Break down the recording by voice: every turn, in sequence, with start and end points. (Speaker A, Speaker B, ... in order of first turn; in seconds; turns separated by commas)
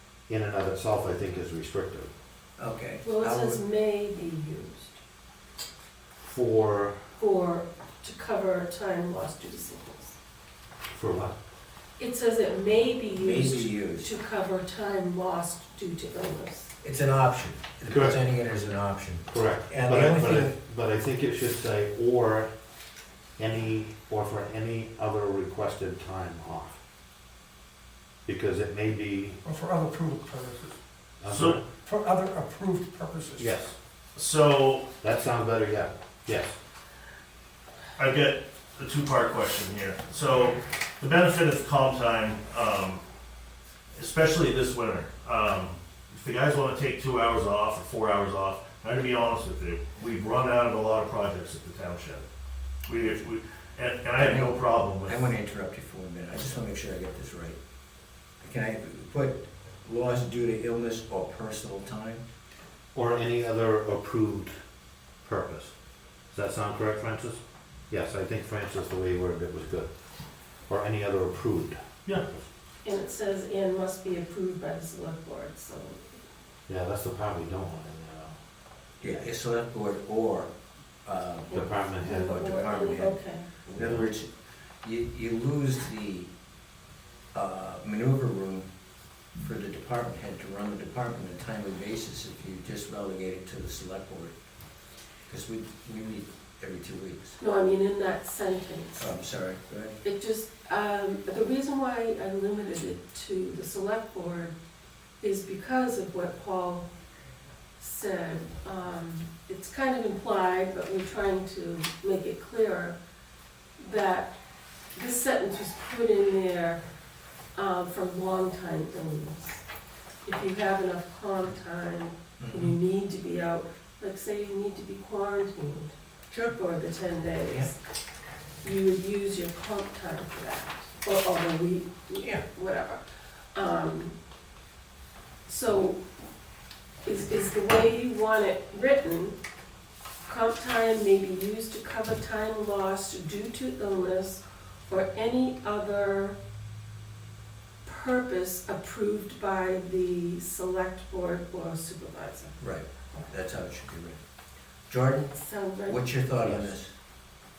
Speaker A: 0.3-2.1, Speaker B: 2.6-3.6, Speaker C: 3.0-5.0, Speaker A: 6.2-7.0, Speaker C: 7.2-10.2, Speaker A: 10.9-11.3, Speaker C: 12.0-16.7, Speaker B: 13.1-14.1, Speaker B: 16.8-20.5, Speaker A: 17.9-18.2, Speaker A: 19.3-22.5, Speaker A: 23.4-26.8, Speaker A: 28.3-29.4, Speaker D: 29.4-30.8, Speaker A: 31.2-31.6, Speaker D: 31.9-33.5, Speaker A: 33.4-33.7, Speaker E: 34.1-34.9, Speaker A: 35.0-36.5, Speaker E: 38.0-43.0, Speaker E: 44.0-52.2, Speaker E: 52.9-55.2, Speaker B: 54.2-57.6, Speaker B: 58.4-62.2, Speaker A: 62.9-64.5, Speaker A: 65.2-65.7, Speaker A: 66.3-69.9, Speaker A: 70.7-72.4, Speaker C: 72.8-76.0, Speaker A: 76.7-78.4, Speaker B: 79.0-80.5, Speaker B: 81.1-84.3, Speaker C: 81.5-83.5, Speaker A: 81.5-82.1, Speaker A: 83.8-84.1, Speaker B: 84.8-86.3, Speaker B: 87.3-88.7, Speaker B: 89.4-94.3, Speaker B: 95.3-97.4, Speaker C: 97.4-99.1, Speaker B: 99.0-100.0, Speaker C: 100.0-104.6, Speaker C: 105.2-106.9, Speaker C: 107.8-113.0, Speaker C: 113.8-114.4, Speaker C: 114.9-116.8, Speaker C: 117.5-119.6, Speaker C: 120.2-125.9, Speaker B: 122.4-122.8, Speaker C: 126.5-127.7, Speaker C: 128.6-133.0, Speaker B: 132.2-132.4, Speaker C: 133.5-134.2, Speaker C: 135.5-136.0, Speaker C: 137.1-139.4, Speaker C: 140.2-146.4, Speaker C: 147.8-152.6, Speaker B: 152.6-154.2, Speaker B: 154.9-156.9, Speaker C: 155.4-156.0, Speaker A: 156.4-156.7